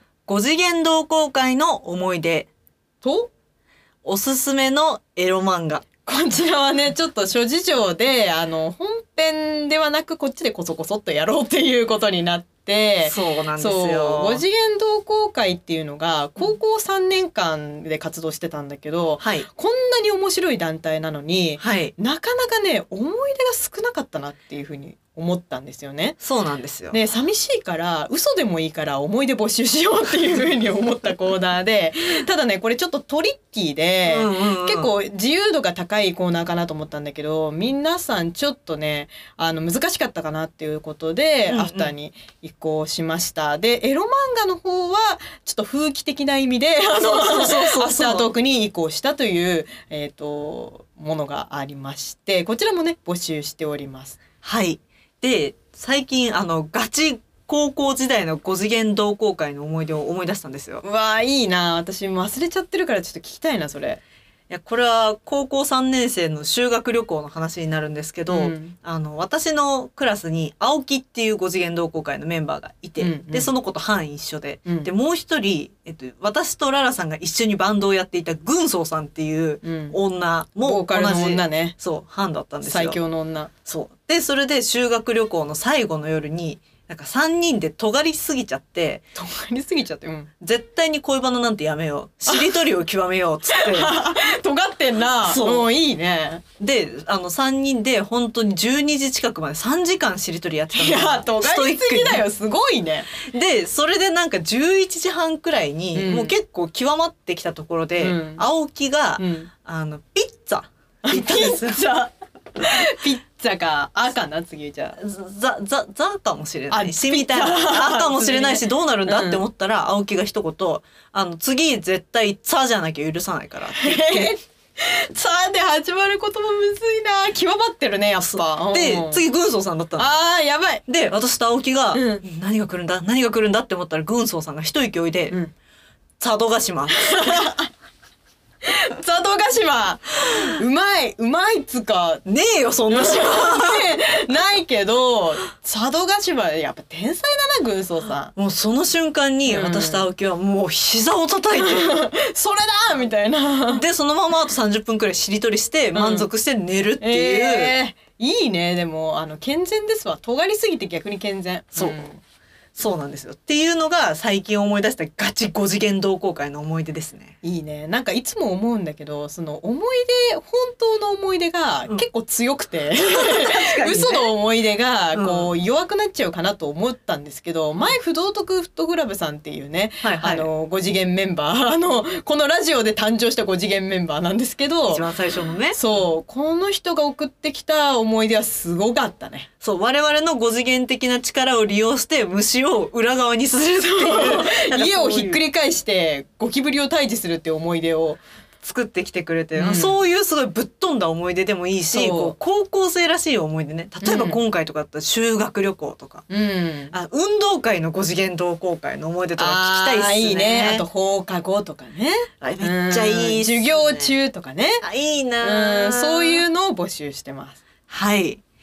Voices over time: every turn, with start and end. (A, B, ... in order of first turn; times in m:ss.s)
0:00.3-0:02.5 A
0:03.0-0:03.3 B
0:04.0-0:05.9 A
0:06.1-0:26.2 B
0:13.0-0:14.4 A
0:19.2-0:19.5 A
0:21.6-0:21.9 A
0:26.2-0:27.0 A
0:26.9-0:54.2 B
0:34.1-0:34.9 A
0:41.5-0:41.9 A
0:47.0-0:48.3 A
0:54.4-1:00.8 A
1:00.8-1:04.0 B
1:04.5-1:23.0 A
1:08.3-1:08.8 B
1:13.0-1:13.5 B
1:19.6-1:20.0 B
1:20.6-1:21.8 B
1:22.6-1:23.5 B
1:23.7-1:29.0 A
1:29.2-1:30.3 B
1:30.4-1:33.9 A
1:32.3-1:32.6 B
1:33.5-1:36.4 B
1:35.2-1:35.7 A
1:36.6-1:42.2 A
1:40.7-1:43.1 B
1:43.2-1:51.8 A
1:45.9-1:46.3 B
1:48.0-1:48.4 B
1:49.2-1:49.5 B
1:51.0-1:55.0 B
1:55.0-2:04.4 A
1:56.7-1:59.4 B
2:03.7-2:09.2 B
2:08.2-2:10.1 A
2:10.0-2:10.8 B
2:10.9-2:15.4 A
2:11.9-2:12.2 B
2:16.2-2:17.5 A
2:17.0-2:17.7 B
2:18.6-2:22.2 B
2:22.2-2:23.9 A
2:22.9-2:28.3 B
2:28.4-2:32.0 A
2:29.5-2:30.1 B
2:31.6-2:33.8 B
2:33.7-2:37.7 A
2:35.9-2:36.3 B
2:37.0-2:42.2 B
2:41.8-2:42.1 A
2:42.8-2:47.4 A
2:47.4-3:05.1 B
2:53.0-2:54.3 A
2:55.2-2:55.5 A
3:00.0-3:00.5 A
3:04.9-3:05.8 A
3:05.7-3:09.5 B
3:09.6-3:15.4 A
3:13.8-3:18.2 B
3:18.6-3:26.3 A
3:19.6-3:20.0 B
3:21.9-3:22.4 B
3:24.0-3:24.4 B
3:26.3-3:26.9 B
3:26.9-3:30.9 A
3:29.4-3:34.8 B
3:32.4-3:34.1 A
3:34.8-3:36.5 A
3:35.4-3:37.6 B
3:37.9-3:38.4 A